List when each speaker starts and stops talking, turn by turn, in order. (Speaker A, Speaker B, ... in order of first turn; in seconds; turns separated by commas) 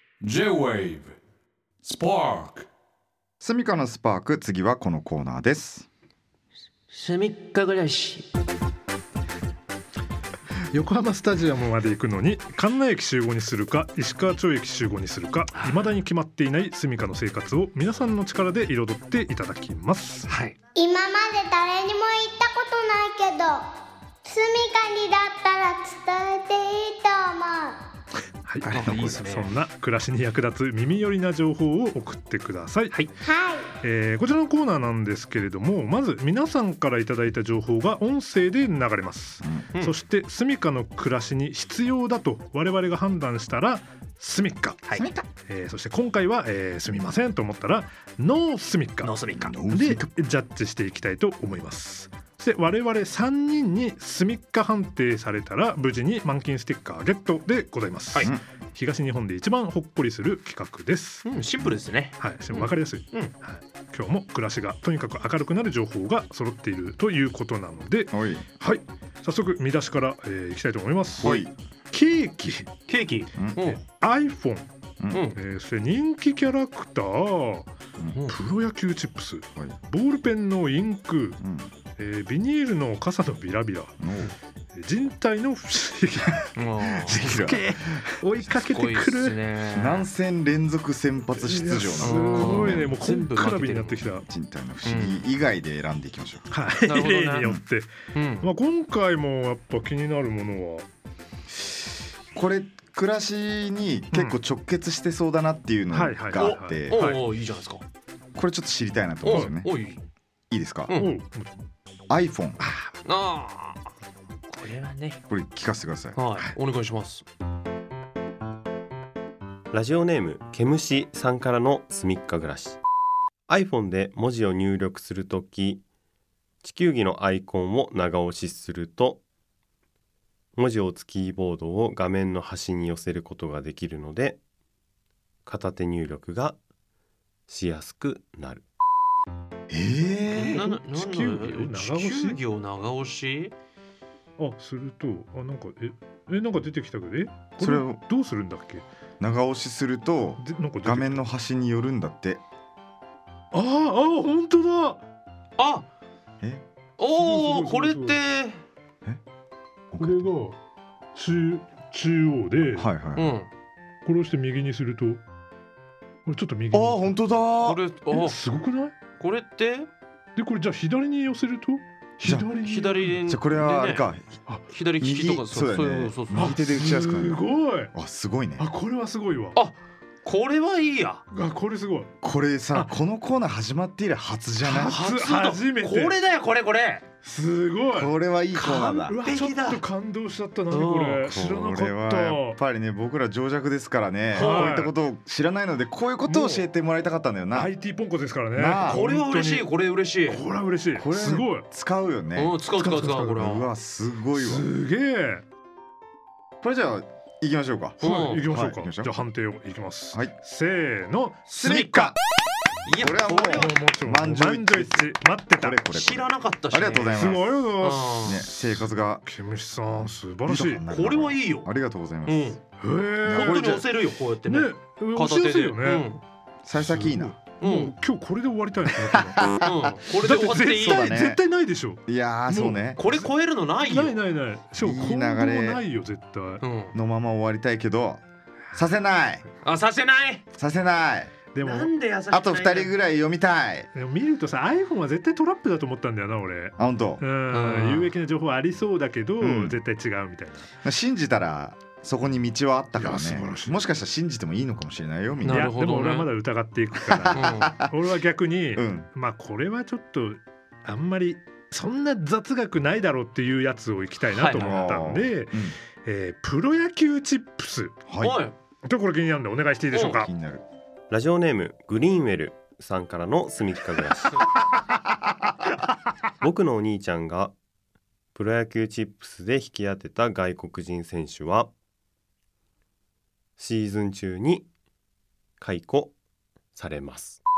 Speaker A: 0.2-1.1, Speaker A: 1.8-2.7, Speaker B: 3.4-5.9, Speaker C: 6.9-8.3, Speaker D: 10.7-20.3, Speaker C: 15.5-16.0, Speaker C: 20.3-20.6, Speaker E: 20.7-23.6, Speaker E: 24.2-27.8, Speaker D: 28.4-33.0, Speaker C: 28.6-29.6, Speaker B: 28.8-29.2, Speaker E: 33.2-33.6, Speaker D: 33.8-44.8, Speaker B: 39.4-39.7, Speaker B: 44.9-45.2, Speaker D: 45.5-49.1, Speaker C: 49.0-49.6, Speaker B: 49.3-50.1, Speaker D: 49.7-58.1, Speaker D: 58.7-61.2, Speaker C: 61.2-63.3, Speaker D: 62.2-71.2, Speaker B: 68.1-68.5, Speaker B: 71.2-71.5, Speaker C: 71.2-71.5, Speaker D: 71.9-72.7, Speaker C: 72.9-73.8, Speaker B: 73.3-73.8, Speaker D: 74.0-74.7, Speaker B: 75.0-75.3, Speaker C: 75.1-75.4, Speaker D: 75.4-77.7, Speaker D: 78.5-81.4, Speaker B: 81.4-81.7, Speaker D: 82.0-83.9, Speaker B: 84.0-84.3, Speaker D: 84.7-86.3, Speaker B: 86.3-88.5, Speaker C: 86.5-87.6, Speaker D: 88.2-89.2, Speaker C: 88.4-90.1, Speaker B: 89.7-92.9, Speaker D: 91.4-94.2, Speaker C: 92.0-94.0, Speaker B: 94.1-96.5, Speaker C: 94.8-95.2, Speaker D: 96.5-100.9, Speaker C: 96.8-97.5, Speaker C: 98.1-98.5, Speaker B: 102.3-107.1, Speaker D: 105.9-106.3, Speaker C: 106.3-107.8, Speaker A: 106.5-107.2, Speaker B: 108.3-109.7, Speaker C: 109.2-110.0, Speaker B: 110.5-111.0, Speaker C: 110.9-111.2, Speaker D: 111.0-111.6, Speaker B: 112.1-112.6, Speaker C: 113.0-113.8, Speaker C: 114.5-115.2, Speaker B: 115.3-116.2, Speaker C: 116.1-117.2, Speaker F: 119.7-122.8, Speaker F: 123.5-125.8, Speaker F: 126.6-129.2, Speaker F: 130.6-134.4, Speaker F: 135.4-136.6, Speaker F: 137.5-138.6, Speaker B: 139.7-140.6, Speaker C: 140.3-143.5, Speaker D: 140.7-142.4, Speaker D: 144.4-148.8, Speaker B: 147.6-148.0, Speaker A: 147.7-148.0, Speaker B: 149.2-152.4, Speaker D: 150.4-151.2, Speaker D: 153.5-155.0, Speaker C: 155.6-155.9, Speaker C: 157.0-158.6, Speaker A: 157.6-158.1, Speaker B: 159.9-160.3, Speaker D: 160.0-160.6, Speaker D: 161.1-162.8, Speaker B: 162.7-163.3, Speaker C: 163.2-163.5, Speaker D: 164.0-165.2, Speaker D: 166.2-167.0, Speaker B: 166.7-167.8, Speaker C: 167.6-168.4, Speaker D: 168.2-168.9, Speaker C: 169.2-169.9, Speaker D: 170.3-172.6, Speaker B: 172.2-172.6, Speaker C: 172.6-174.0, Speaker B: 173.2-174.4, Speaker C: 174.7-176.5, Speaker B: 175.0-178.7, Speaker D: 176.7-177.9, Speaker D: 178.6-179.6, Speaker C: 179.5-181.2, Speaker D: 181.3-182.1, Speaker B: 182.2-185.0, Speaker D: 184.6-186.1, Speaker C: 184.8-187.0, Speaker D: 187.2-188.1, Speaker B: 187.9-189.2, Speaker C: 188.5-189.9, Speaker D: 189.1-192.6, Speaker C: 190.7-191.3, Speaker B: 191.2-197.7, Speaker C: 194.3-194.8, Speaker D: 194.4-194.9, Speaker D: 197.6-199.7, Speaker B: 198.5-199.1, Speaker C: 198.8-200.4, Speaker D: 200.4-201.6, Speaker B: 200.9-204.7, Speaker C: 202.3-203.7, Speaker D: 204.4-205.4, Speaker B: 206.6-209.2, Speaker C: 208.0-208.4, Speaker D: 208.2-211.4, Speaker C: 211.5-212.2, Speaker B: 211.6-212.2, Speaker C: 212.8-213.8, Speaker B: 212.9-219.3, Speaker D: 213.6-215.8, Speaker C: 215.9-218.4, Speaker A: 217.1-218.3, Speaker D: 217.2-217.6, Speaker D: 219.2-220.7, Speaker B: 219.8-222.6, Speaker C: 220.8-221.7, Speaker C: 222.2-222.6, Speaker D: 222.8-223.8, Speaker B: 223.2-223.8, Speaker C: 223.2-226.2, Speaker D: 224.4-225.8, Speaker B: 226.6-227.5, Speaker D: 226.8-229.3, Speaker C: 227.6-228.0, Speaker B: 228.9-231.4, Speaker C: 229.6-231.2, Speaker D: 230.3-232.8, Speaker B: 232.1-233.0, Speaker C: 233.0-234.2, Speaker D: 233.9-236.6, Speaker B: 234.7-235.8, Speaker C: 236.6-236.9, Speaker B: 236.9-238.2, Speaker B: 238.7-239.4, Speaker C: 239.6-240.4, Speaker B: 240.5-241.3, Speaker D: 241.5-241.9, Speaker C: 241.6-242.9, Speaker B: 242.3-243.9, Speaker D: 243.9-250.7, Speaker B: 246.8-247.2, Speaker C: 247.5-248.2, Speaker B: 249.4-249.8, Speaker B: 250.8-255.8, Speaker A: 253.0-253.7, Speaker C: 255.4-256.4, Speaker D: 255.5-257.4, Speaker B: 256.9-258.0, Speaker C: 257.3-257.8, Speaker D: 257.9-268.0, Speaker B: 258.7-259.1, Speaker C: 264.2-265.1, Speaker B: 264.5-265.8, Speaker B: 268.1-268.4, Speaker C: 268.2-268.5, Speaker D: 268.8-270.2, Speaker C: 269.9-270.2, Speaker B: 270.0-270.6, Speaker F: 271.1-274.4, Speaker F: 276.4-277.5, Speaker F: 278.3-281.7, Speaker F: 283.6-284.7, Speaker F: 285.6-286.1, Speaker F: 286.7-287.4